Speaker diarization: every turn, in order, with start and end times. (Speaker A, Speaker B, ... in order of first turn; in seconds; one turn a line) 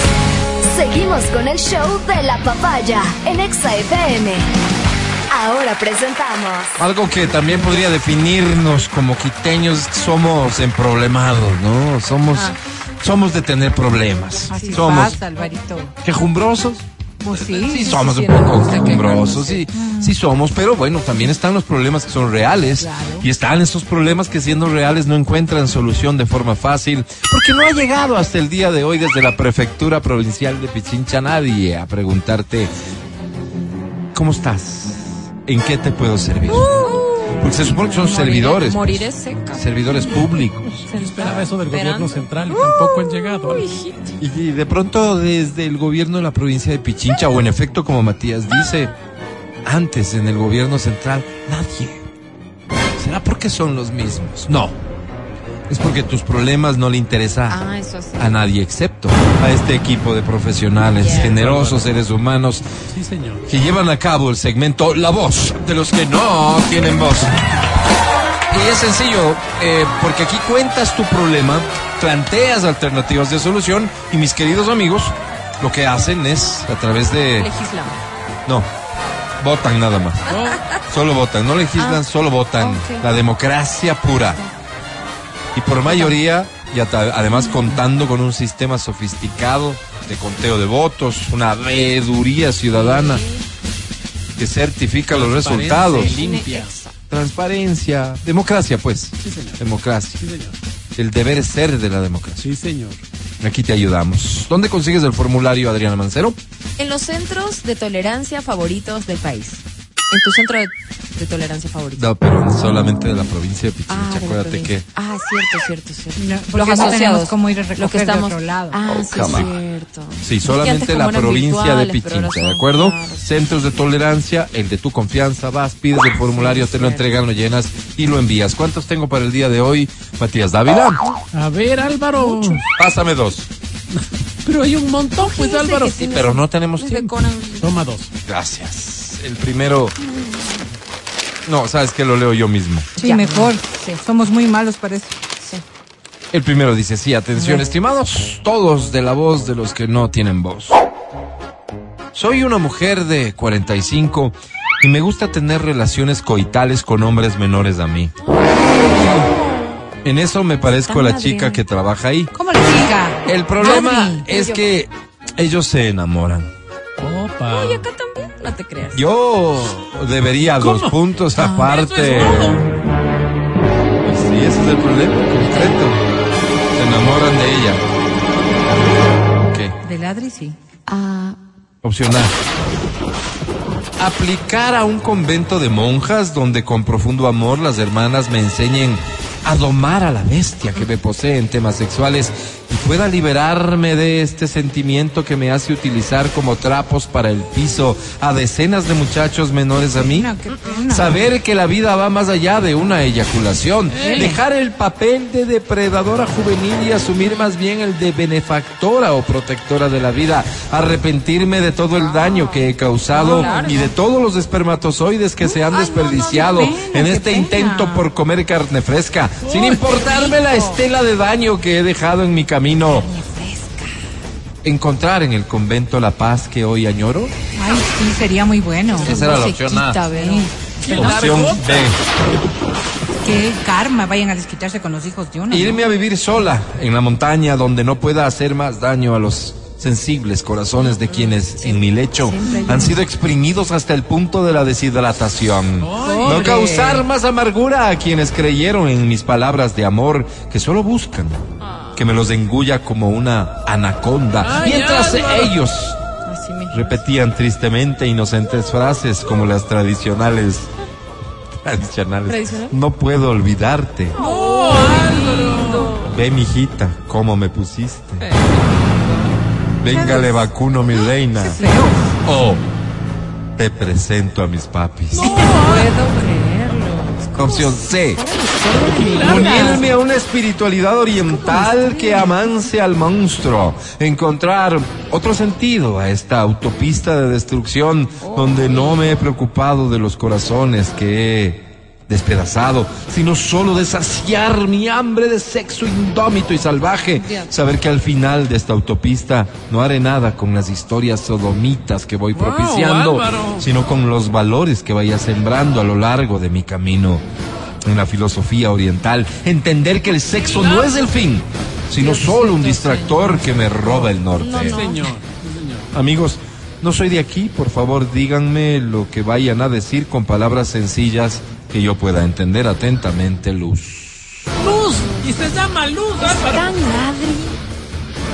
Speaker A: 0.7-4.5
Speaker A: 5.3-6.7
Speaker B: 6.8-15.2
Speaker C: 12.3-12.6
Speaker D: 14.5-15.9
Speaker C: 14.5-15.2
Speaker B: 16.0-16.9
Speaker C: 17.2-19.7
Speaker D: 17.3-17.9
Speaker B: 17.6-32.7
Speaker D: 19.7-20.1
Speaker D: 22.8-23.3
Speaker B: 34.1-40.9
Speaker C: 36.5-40.3
Speaker C: 40.9-44.1
Speaker E: 40.9-43.6
Speaker B: 44.2-48.9
Speaker B: 49.7-52.1
Speaker B: 53.0-54.8
Speaker B: 55.7-57.6
Speaker C: 57.5-58.5
Speaker B: 58.2-62.7
Speaker C: 60.8-61.4
Speaker E: 61.2-61.9
Speaker E: 62.9-63.5
Speaker B: 63.5-67.3
Speaker B: 68.5-77.5
Speaker C: 77.4-78.0
Speaker B: 79.4-80.2
Speaker E: 80.3-80.6
Speaker C: 80.3-80.8
Speaker B: 80.9-84.4
Speaker C: 81.8-82.0
Speaker C: 82.6-83.1
Speaker B: 85.5-93.2
Speaker C: 85.9-86.2
Speaker C: 92.7-93.5
Speaker B: 94.4-96.2
Speaker E: 95.1-96.8
Speaker C: 95.9-96.9
Speaker B: 97.1-100.2
Speaker E: 99.2-99.6
Speaker E: 100.2-100.6
Speaker B: 101.0-102.4
Speaker E: 102.4-103.0
Speaker B: 103.4-106.4
Speaker C: 106.8-112.1
Speaker B: 112.0-114.8
Speaker C: 113.9-123.3
Speaker D: 116.2-118.8
Speaker B: 118.9-119.5
Speaker B: 120.2-131.0
Speaker C: 126.2-127.1
Speaker E: 131.3-132.6
Speaker C: 132.2-132.6
Speaker B: 132.7-133.5
Speaker E: 134.0-136.3
Speaker C: 135.2-137.8
Speaker B: 136.1-137.1
Speaker E: 136.9-138.1
Speaker B: 138.3-139.9
Speaker C: 140.1-140.6
Speaker B: 141.4-142.9
Speaker D: 143.0-145.2
Speaker C: 143.0-143.6
Speaker B: 146.3-150.8
Speaker C: 147.3-147.7
Speaker B: 152.1-158.1
Speaker C: 158.3-159.9
Speaker B: 160.0-162.3
Speaker C: 160.7-161.6
Speaker D: 162.3-164.3
Speaker B: 163.3-166.5
Speaker C: 163.6-164.7
Speaker E: 167.0-167.8
Speaker C: 167.4-169.0
Speaker B: 168.9-172.6
Speaker E: 170.6-171.0
Speaker D: 171.4-171.7
Speaker E: 171.7-172.7
Speaker B: 174.0-176.0
Speaker C: 175.4-175.8
Speaker B: 176.8-177.8
Speaker B: 179.5-179.8
Speaker D: 179.8-180.6
Speaker C: 180.9-181.4
Speaker B: 181.8-182.3
Speaker B: 184.0-200.3
Speaker D: 199.9-201.3
Speaker B: 200.9-223.1
Speaker E: 203.9-204.3
Speaker D: 204.0-204.4
Speaker C: 212.1-213.8
Speaker D: 213.1-213.9
Speaker D: 215.4-218.1
Speaker E: 219.4-219.9
Speaker D: 219.9-220.8
Speaker D: 222.9-223.9
Speaker B: 224.6-227.3
Speaker D: 227.6-229.2
Speaker C: 229.0-231.2
Speaker B: 229.0-230.0
Speaker D: 230.1-230.5
Speaker E: 230.8-231.9
Speaker B: 230.9-232.0
Speaker D: 233.2-235.8
Speaker B: 235.5-251.4
Speaker C: 240.8-243.0
Speaker D: 242.5-243.0
Speaker E: 245.8-246.8
Speaker D: 246.0-247.0
Speaker C: 251.6-252.1
Speaker B: 252.0-256.0
Speaker E: 254.4-255.6
Speaker C: 256.2-257.0
Speaker B: 256.7-260.7
Speaker B: 261.6-264.2
Speaker C: 262.3-262.8
Speaker C: 264.1-266.1
Speaker E: 264.2-266.1
Speaker B: 266.0-268.2
Speaker C: 268.2-269.0
Speaker B: 269.8-271.6
Speaker D: 269.9-270.5
Speaker C: 270.9-271.9
Speaker D: 271.4-272.1
Speaker B: 272.2-272.6
Speaker B: 273.6-275.4
Speaker E: 275.1-275.9
Speaker C: 275.2-279.8
Speaker B: 277.4-278.2
Speaker E: 278.9-279.8
Speaker B: 279.1-307.2
Speaker C: 281.6-282.2
Speaker C: 288.2-289.1
Speaker C: 297.2-297.5
Speaker E: 302.3-303.7
Speaker B: 307.8-314.9
Speaker E: 310.5-311.0
Speaker C: 312.0-313.3
Speaker E: 312.1-315.9
Speaker C: 314.3-315.1
Speaker B: 315.9-324.4
Speaker E: 324.6-326.8
Speaker C: 326.2-327.6